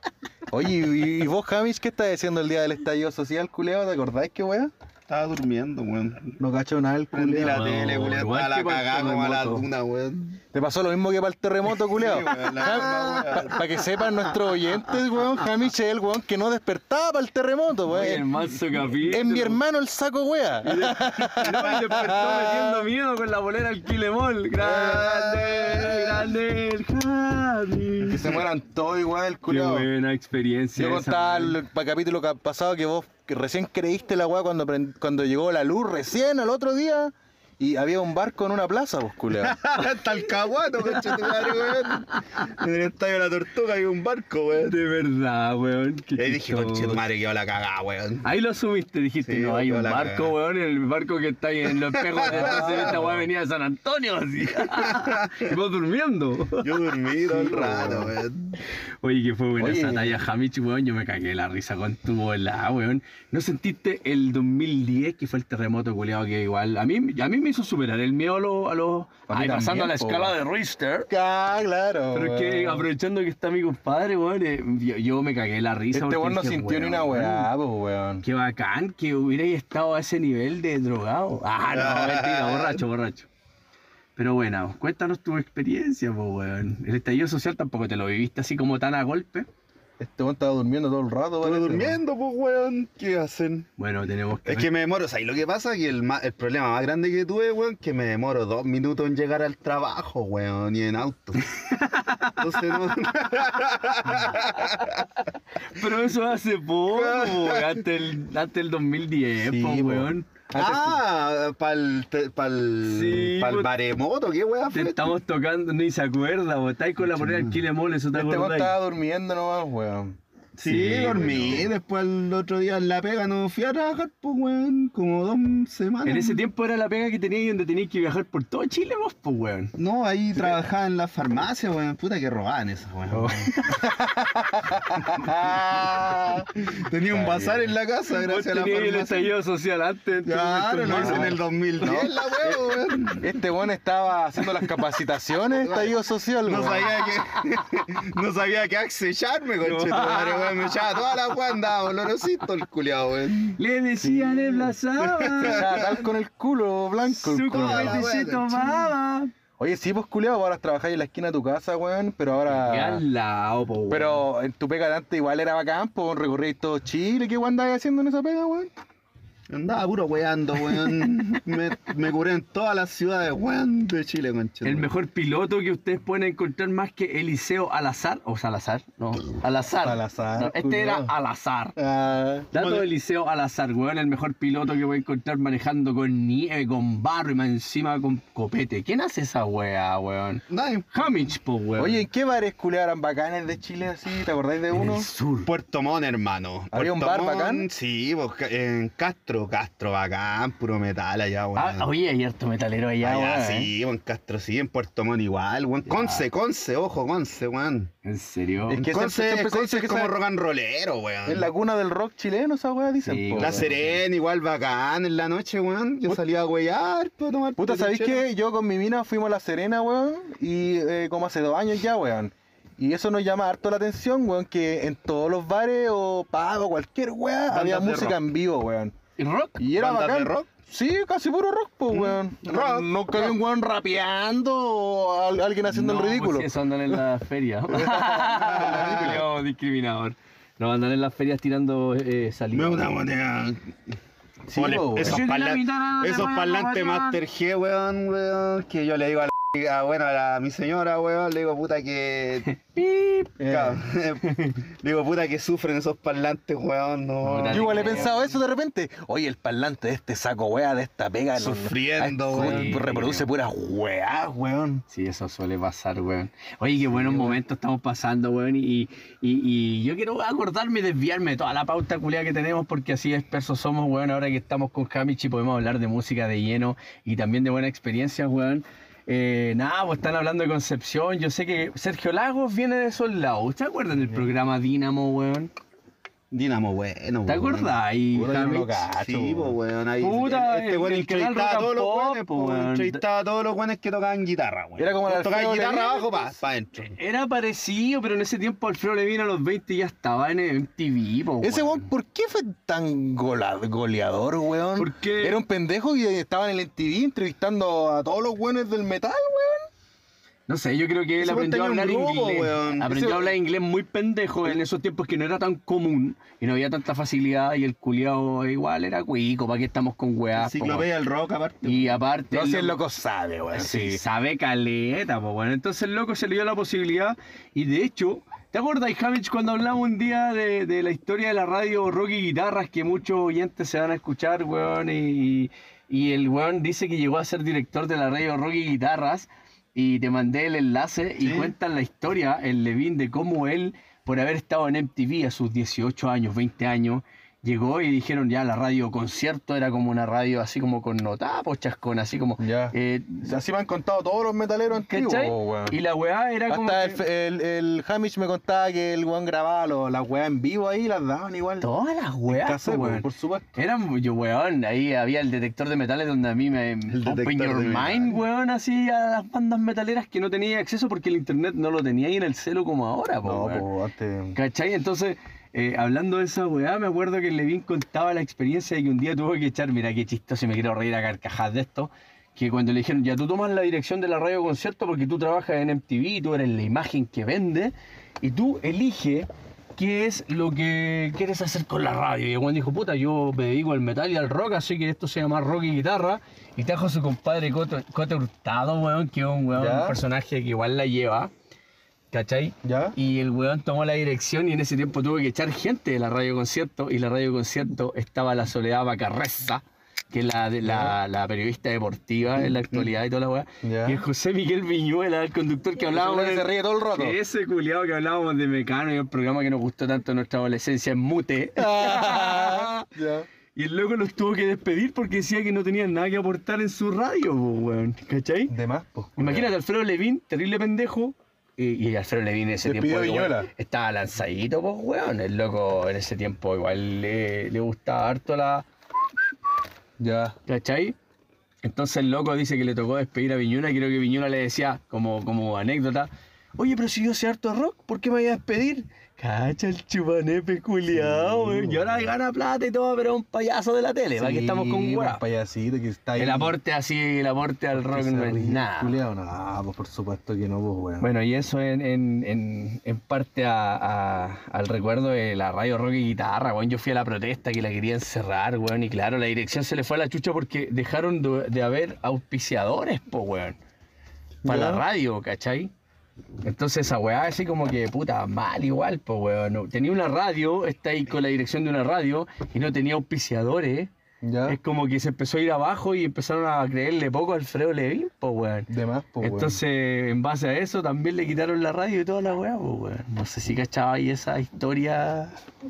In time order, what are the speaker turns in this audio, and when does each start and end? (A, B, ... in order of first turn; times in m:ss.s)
0:00.5-0:04.7 A
0:05.1-0:06.4 B
0:06.4-0:07.7 A
0:07.1-0:10.4 B
0:07.4-0:09.7 C
0:10.5-0:22.9 A
0:11.8-0:14.2 B
0:17.9-0:19.6 C
0:20.6-0:28.4 C
0:24.6-0:25.9 A
0:28.1-0:29.9 A
0:29.5-0:31.6 C
0:30.8-0:39.6 A
0:39.4-0:44.8 B
0:41.2-0:41.7 C
0:44.7-0:47.0 C
0:46.2-0:48.3 B
0:48.2-0:58.0 C
0:49.2-0:50.3 B
0:51.9-0:53.0 B
0:52.3-0:53.3 A
0:54.7-0:55.4 B
0:56.6-0:58.6 B
0:57.6-0:58.1 A
0:59.0-1:11.1 C
0:59.6-1:00.2 A
1:09.3-1:10.4 A
1:11.1-1:12.9 A
1:12.1-1:17.5 C
1:15.9-1:18.2 A
1:18.2-1:23.3 C
1:21.7-1:22.8 B
1:24.2-1:29.5 C
1:30.0-1:32.0 A
1:31.4-1:33.7 B
1:33.8-1:34.7 C
1:34.5-1:41.6 B
1:41.7-1:42.4 C
1:42.4-1:45.1 B
1:45.7-1:50.3 C
1:46.9-1:47.8 B
1:49.4-1:51.0 A
1:50.6-1:55.2 B
1:52.9-1:53.7 C
1:54.7-1:58.7 C
1:57.1-1:57.6 B
1:58.1-2:00.1 A
2:00.6-2:06.4 B
2:00.6-2:01.7 C
2:01.3-2:01.6 A
2:06.0-2:09.8 C
2:09.8-2:13.6 B
2:13.1-2:16.5 A
2:15.0-2:15.3 B
2:16.6-2:19.3 B
2:17.1-2:17.7 A
2:18.2-2:21.4 C
2:20.3-2:23.3 B
2:20.9-2:26.9 A
2:25.6-2:33.6 B
2:29.6-2:30.8 C
2:33.6-2:35.9 C
2:34.0-2:34.7 A
2:35.0-2:36.0 B
2:35.4-2:38.0 A
2:37.1-2:39.3 C
2:37.5-2:38.9 B
2:39.6-2:43.0 A
2:42.5-2:44.3 C
2:43.9-2:48.7 A
2:49.5-2:54.9 B
2:54.6-3:01.8 C
2:59.8-3:01.1 A
3:01.8-3:02.5 A
3:02.5-3:12.0 C
3:02.5-3:02.9 B
3:10.5-3:11.0 B
3:11.8-3:15.1 A
3:14.7-3:15.5 C
3:15.4-3:21.9 B
3:16.7-3:17.7 A
3:21.6-3:23.7 C
3:23.0-3:27.9 B
3:23.1-3:23.7 A
3:25.9-3:26.2 C
3:28.0-3:28.9 C
3:28.7-3:30.2 A
3:28.8-3:31.5 B
3:31.3-3:33.7 A
3:33.0-3:34.0 C
3:33.4-3:38.2 B
3:37.6-3:49.0 A
3:47.5-3:48.2 B
3:49.2-3:49.6 C
3:49.6-3:57.0 A
3:49.8-3:50.5 B
3:51.9-3:53.4 B
3:55.7-4:02.9 C
3:57.7-3:59.2 A
3:58.4-3:59.2 B
4:02.5-4:03.7 B
4:04.5-4:05.2 A
4:04.5-4:12.5 B
4:05.0-4:07.2 C
4:12.6-4:13.4 C
4:13.4-4:13.8 A
4:13.4-4:18.2 B
4:17.2-4:18.1 C
4:17.5-4:24.8 A
4:21.4-4:22.9 B
4:22.3-4:23.3 C
4:24.9-4:45.5 C
4:27.0-4:27.3 A
4:46.3-4:47.8 B
4:47.3-4:48.8 C
4:48.1-4:49.6 A
4:48.9-4:57.0 B
4:50.0-4:53.0 C
4:54.8-4:56.3 A
4:56.9-5:01.9 C
5:01.4-5:09.7 A
5:04.8-5:05.4 C
5:10.5-5:20.9 C
5:11.2-5:13.1 B
5:12.9-5:13.3 A
5:20.4-5:22.0 B
5:21.6-5:22.8 C
5:22.3-5:24.0 A
5:23.5-5:53.3 C
5:41.2-5:41.5 B
5:52.4-5:55.8 A
5:54.9-5:57.0 C
5:56.5-6:01.7 A
6:01.6-6:13.7 C
6:02.3-6:03.5 A
6:06.9-6:08.2 B
6:13.2-6:14.4 A
6:14.4-6:41.3 C
6:39.6-6:40.0 A
6:42.1-7:02.9 C
6:42.6-6:43.0 A
6:50.6-6:51.0 A
6:53.6-6:54.0 A
6:55.8-6:57.2 A
7:01.6-7:03.3 A
7:03.6-7:08.5 C
7:08.5-7:09.5 A
7:09.2-7:18.7 C
7:12.6-7:13.5 A
7:20.0-7:20.4 A
7:20.5-7:21.0 C
7:21.6-7:35.2 C
7:31.0-7:31.9 A
7:34.2-7:36.6 A
7:36.2-7:39.0 C
7:37.7-7:41.1 A
7:41.0-7:53.6 C
7:54.4-7:54.8 A
7:54.4-7:55.7 C
7:56.4-8:03.9 C
8:04.2-8:04.6 A
8:04.5-8:08.7 C
8:08.7-8:09.6 A
8:09.2-8:15.4 C